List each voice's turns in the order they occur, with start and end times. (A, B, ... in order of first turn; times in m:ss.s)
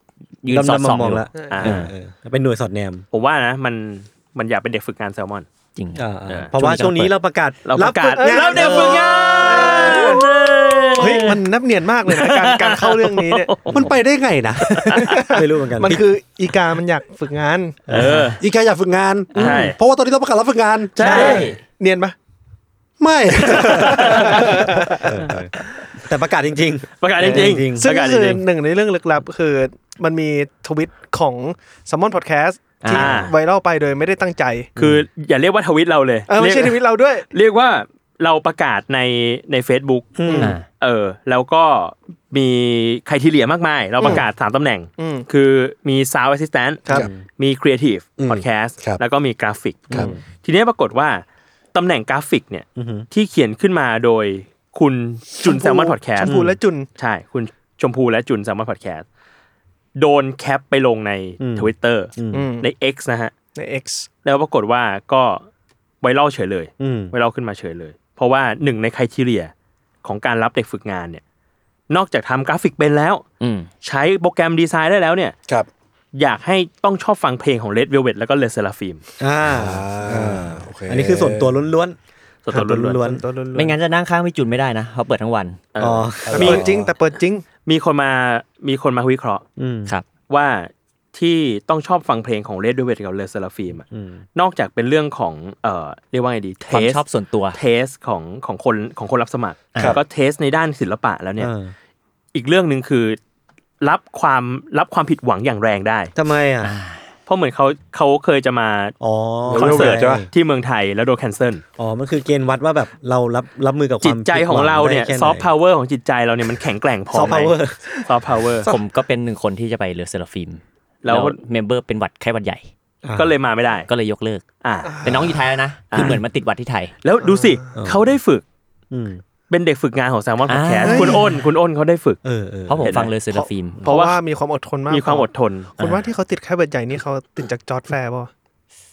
0:00.4-0:01.9 A
0:00.5-0:03.0 B
0:01.3-0:01.8 C
0:01.5-0:01.9 D
0:03.1-0:05.5 D
0:05.8-0:07.1 A
0:06.0-0:10.1 B
0:07.7-0:11.4 D
0:08.2-0:10.3 C
0:11.0-0:13.7 C
0:11.0-0:11.3 B
0:12.1-0:13.9 D
0:13.7-0:14.7 E
0:14.6-0:15.1 D
0:14.8-0:16.0 B
0:15.0-0:17.9 C
0:17.9-0:18.4 B
0:17.9-0:18.4 D
0:18.4-0:21.3 E
0:19.4-0:19.7 A
0:19.4-0:19.8 D
0:21.0-0:21.5 D
0:21.0-0:22.2 C
0:21.2-0:21.6 A
0:23.0-0:24.7 E
0:23.5-0:24.4 D
0:24.1-0:25.2 C
0:24.3-0:27.9 B
0:27.0-0:28.4 D
0:27.3-0:34.7 C
0:32.8-0:33.2 A
0:32.9-0:33.3 D
0:34.8-0:36.8 D
0:34.8-0:35.1 B
0:36.3-0:37.3 C
0:37.3-0:56.4 D
0:40.2-0:40.6 B
0:40.2-0:40.6 C
0:40.4-0:40.6 A
0:45.0-0:45.3 C
0:47.0-0:47.2 B
0:48.2-0:49.0 E
0:49.9-0:50.2 B
0:52.8-0:53.1 B
0:55.4-0:56.9 C
0:56.2-0:56.6 B
0:57.0-0:59.0 D
1:00.0-1:03.3 D
1:01.4-1:02.5 B
1:02.3-1:02.7 C
1:03.6-1:04.1 C
1:04.2-1:05.5 D
1:06.0-1:09.5 D
1:06.8-1:07.2 B
1:10.0-1:11.2 D
1:11.9-1:13.2 D
1:13.4-1:13.7 A
1:13.8-1:15.4 D
1:16.2-1:19.0 D
1:19.2-1:22.0 B
1:19.4-1:21.6 E
1:22.5-1:23.0 D
1:22.5-1:23.2 B
1:22.5-1:23.8 C
1:23.6-1:25.7 A
1:25.7-1:26.6 D
1:25.8-1:26.6 B
1:26.3-1:26.9 E
1:26.4-1:27.4 C
1:27.7-1:29.4 D
1:29.6-1:29.9 B
1:30.3-1:37.0 D
1:33.9-1:34.2 B
1:36.7-1:37.6 A
1:37.5-1:41.5 D
1:39.7-1:40.0 A
1:41.4-1:41.7 B
1:42.3-1:43.2 D
1:43.8-1:46.1 D
1:46.2-1:46.7 B
1:46.6-1:47.0 A
1:47.3-1:49.0 D
1:49.0-1:50.3 B
1:49.5-1:50.2 E
1:49.5-1:51.6 D
1:51.8-1:55.5 B
1:54.0-1:58.7 D
1:57.1-1:57.8 B
1:58.7-2:02.7 A
2:01.0-2:01.4 D
2:03.0-2:03.4 B
2:03.2-2:03.9 D
2:03.9-2:04.4 A
2:04.6-2:05.3 D
2:04.8-2:05.4 C
2:05.0-2:07.0 A
2:05.9-2:06.2 D
2:07.0-2:08.4 D
2:07.2-2:07.8 C
2:07.8-2:08.1 B
2:08.9-2:09.2 B
2:09.5-2:12.2 D
2:10.5-2:11.2 A
2:10.8-2:11.4 C
2:12.2-2:13.1 B
2:12.7-2:13.8 A
2:12.8-2:13.1 D
2:13.3-2:18.3 C
2:13.8-2:14.2 D
2:14.9-2:15.7 D